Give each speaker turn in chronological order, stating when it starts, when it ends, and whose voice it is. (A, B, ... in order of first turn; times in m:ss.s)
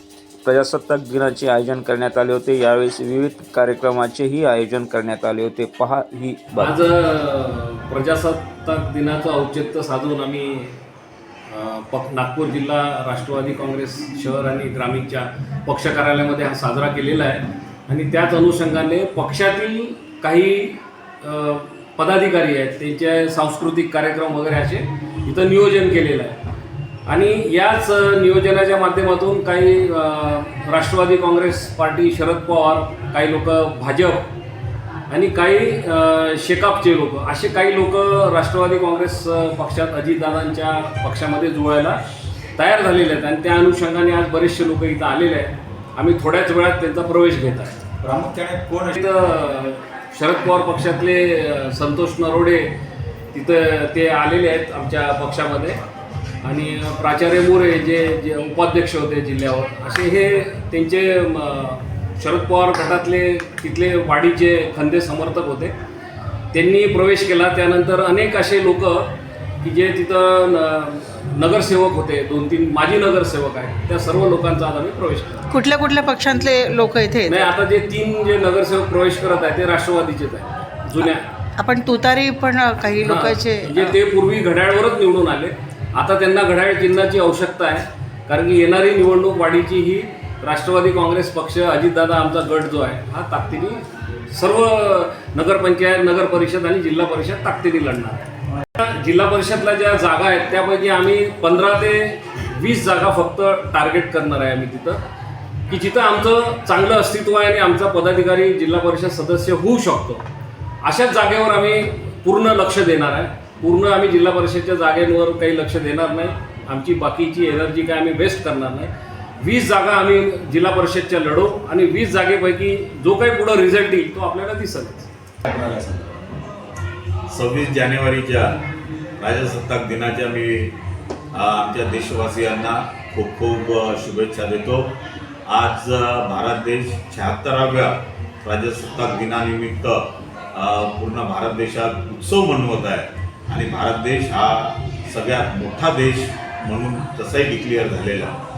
0:00.4-0:06.7 A
0:06.6-0:10.8 B
0:11.5-0:26.4 B
0:27.1-0:34.3 B
0:35.1-0:42.0 B
0:42.6-0:47.8 B
0:48.9-0:52.7 B
0:53.3-0:55.8 B
0:56.4-1:05.8 B
1:06.5-1:15.4 B
1:15.6-1:17.3 C
1:17.3-1:21.3 B
1:21.6-1:23.7 C
1:23.0-1:45.0 B
1:45.7-1:50.2 B
1:50.8-2:05.1 B
2:05.5-2:06.0 D
2:07.3-2:08.6 D
2:09.2-2:10.8 D
2:11.3-2:15.0 D
2:15.5-2:28.4 D